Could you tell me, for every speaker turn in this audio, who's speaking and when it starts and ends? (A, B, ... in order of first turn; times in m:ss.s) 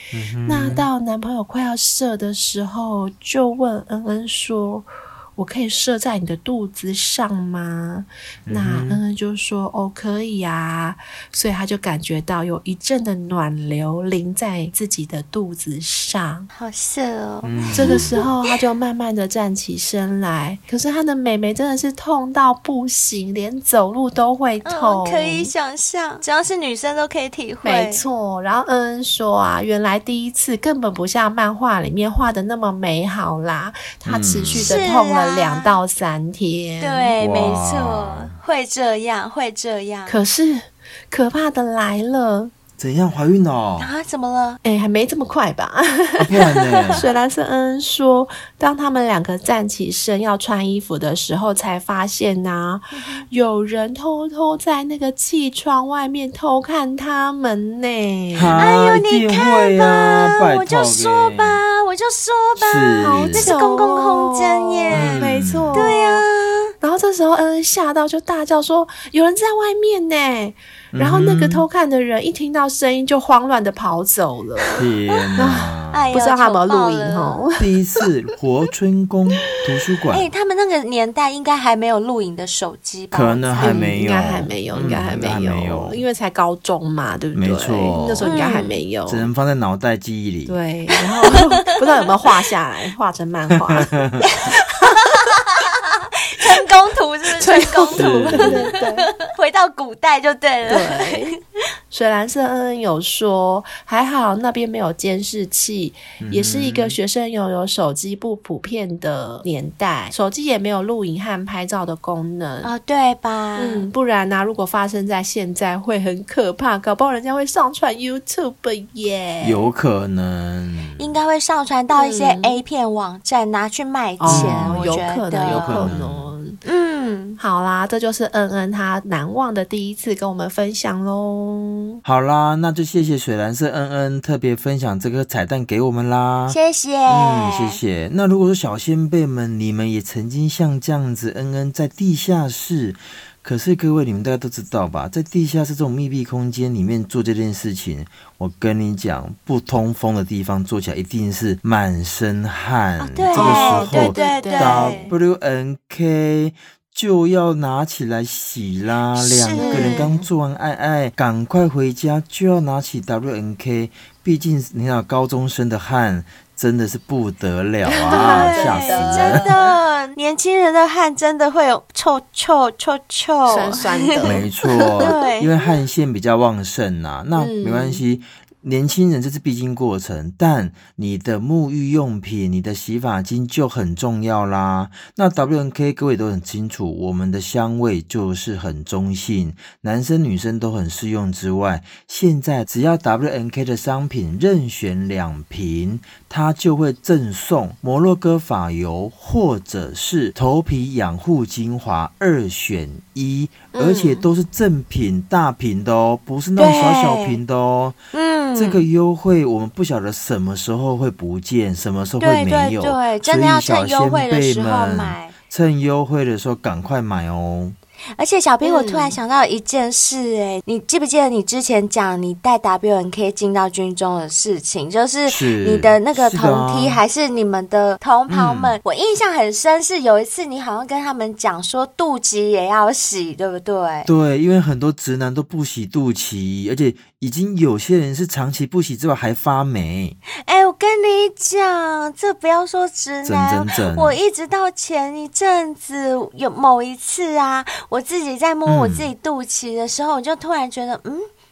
0:00.1-0:00.9 A
0:00.4-0:16.5 B
0:08.5-0:09.0 A
0:16.5-0:18.2 C
0:17.4-0:18.2 A
0:17.7-0:25.5 B
0:24.6-0:28.0 C
0:27.6-0:37.1 B
0:34.0-0:34.8 A
0:34.6-0:35.8 C
0:36.8-0:40.2 C
0:37.2-0:38.3 A
0:40.1-0:42.5 B
0:42.8-0:43.9 A
0:43.8-0:44.6 C
0:44.6-0:46.4 B
0:46.2-0:47.1 A
0:47.0-0:58.6 B
0:52.9-0:53.3 C
0:58.3-1:01.6 A
0:58.6-1:06.7 C
1:02.6-1:03.5 A
1:03.0-1:06.2 B
1:04.9-1:05.8 A
1:06.8-1:14.8 B
1:10.9-1:11.6 A
1:14.8-1:16.1 A
1:15.1-1:17.5 C
1:15.4-1:17.7 B
1:17.6-1:20.3 A
1:20.1-1:23.9 C
1:23.1-1:26.0 A
1:23.6-1:29.3 B
1:27.4-1:30.6 A
1:28.2-1:28.8 C
1:30.5-1:34.0 B
1:31.3-1:31.8 C
1:33.7-1:34.2 A
1:34.2-1:41.2 C
1:37.4-1:39.1 B
1:38.0-1:38.6 A
1:40.6-1:41.3 B
1:41.9-1:52.7 B
1:46.2-1:47.0 A
1:52.6-1:53.9 C
1:53.6-1:59.6 B
1:59.4-2:01.1 A
2:01.0-2:05.9 C
2:01.9-2:02.6 B
2:04.2-2:06.6 B
2:04.3-2:06.3 A
2:06.6-2:07.4 C
2:07.4-2:12.0 B
2:12.0-2:49.5 A
2:16.5-2:17.8 C
2:33.0-2:35.1 C
2:33.3-2:35.1 B
2:39.2-2:40.1 C
2:39.6-2:40.2 B
2:47.9-2:49.6 B
2:48.1-2:54.3 C
2:53.5-2:55.1 B
2:54.2-3:28.0 A
2:55.0-2:55.6 C
2:57.4-2:58.0 B
3:23.7-3:24.3 B
3:26.6-3:27.4 C
3:28.1-3:28.8 C
3:28.6-3:37.8 A
3:32.2-3:35.4 C
3:38.1-3:54.1 C
3:38.6-3:39.2 B
3:45.3-3:47.0 A
3:48.3-3:48.8 A
3:54.1-4:00.2 A
4:00.4-4:11.3 C
4:03.2-4:04.2 A
4:08.7-4:09.1 A